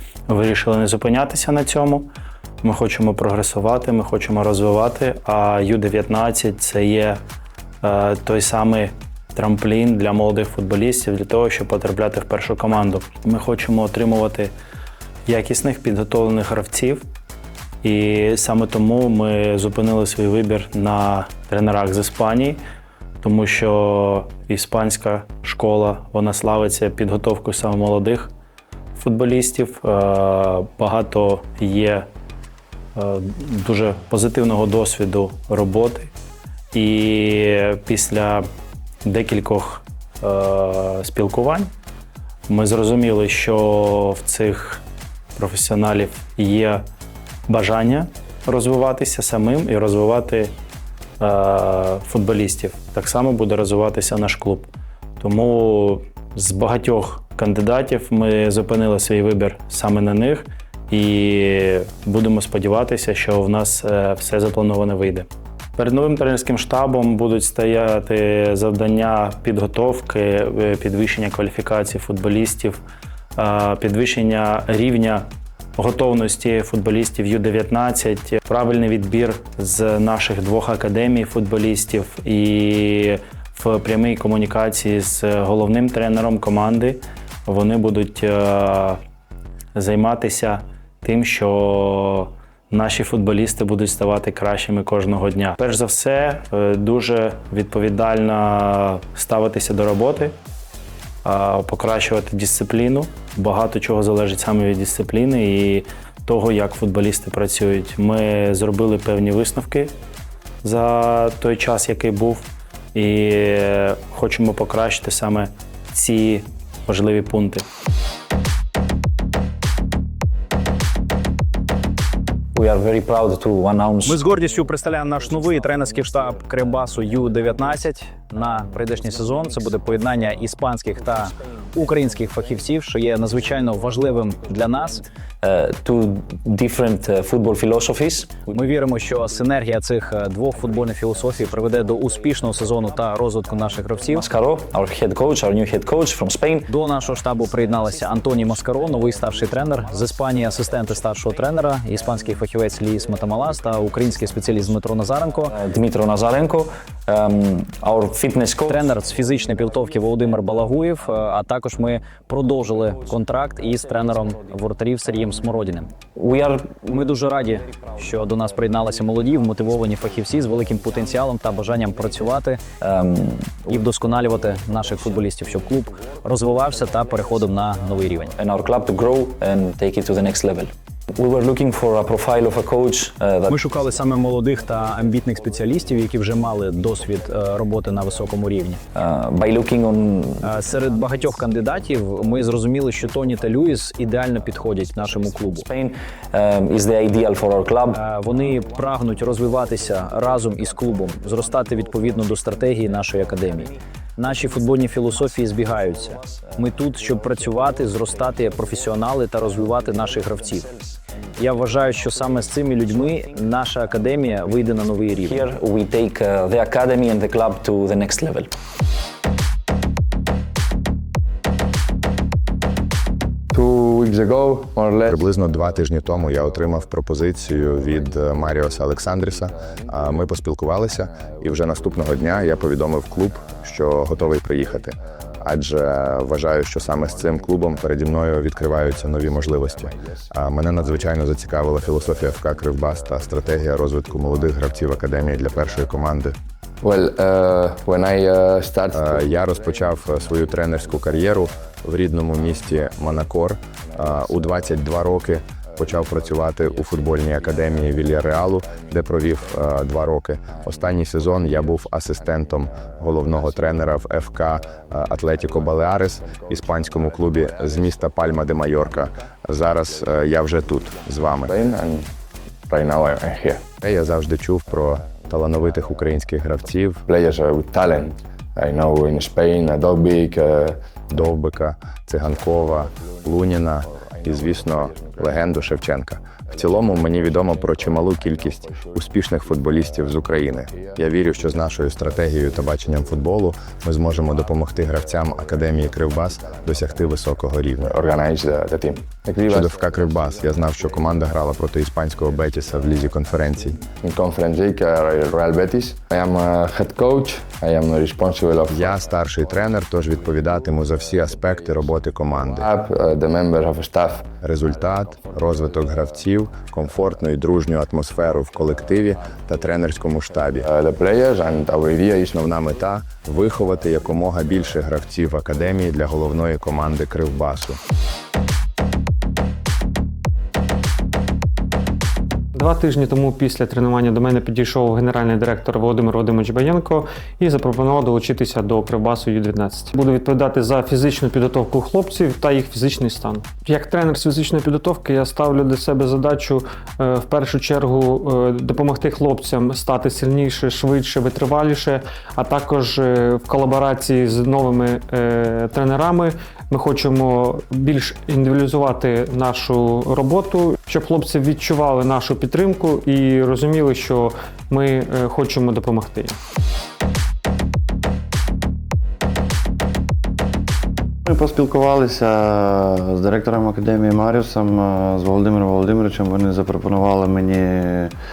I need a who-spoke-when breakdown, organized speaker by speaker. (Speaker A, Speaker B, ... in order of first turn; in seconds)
Speaker A: 0.3-2.1, 2.6-7.2, 7.8-14.5, 15.3-17.1, 17.8-22.6, 23.2-28.3, 29.0-32.1, 33.0-36.1, 36.7-38.5, 39.1-41.7, 42.5-44.8, 45.4-46.8, 47.5-50.5, 51.2-72.8, 73.4-89.0, 89.8-100.4, 101.2-109.9, 110.6-117.7
Speaker B: 122.5-124.2, 135.4-138.5, 144.1-146.7, 155.6-158.9, 166.2-166.8, 172.8-173.6, 178.4-183.6, 188.9-190.4, 195.7-198.0, 215.2-218.5
Speaker C: 124.1-135.1, 138.5-144.2, 146.7-155.5, 158.7-166.0, 166.9-172.7, 173.7-178.4, 183.5-188.8, 190.4-195.7, 197.9-210.7, 211.4-215.4
Speaker D: 223.5-225.2, 246.8-249.3, 271.4-272.1, 272.7-273.7, 277.1-280.8, 297.8-299.7, 303.9-309.0, 312.6-314.3, 320.6-322.5
Speaker E: 225.1-246.3, 248.9-271.5, 273.8-277.0, 281.1-297.9, 299.5-303.8, 308.7-312.7, 314.4-320.7, 322.3-327.8
Speaker F: 332.6-366.4
Speaker G: 371.3-378.1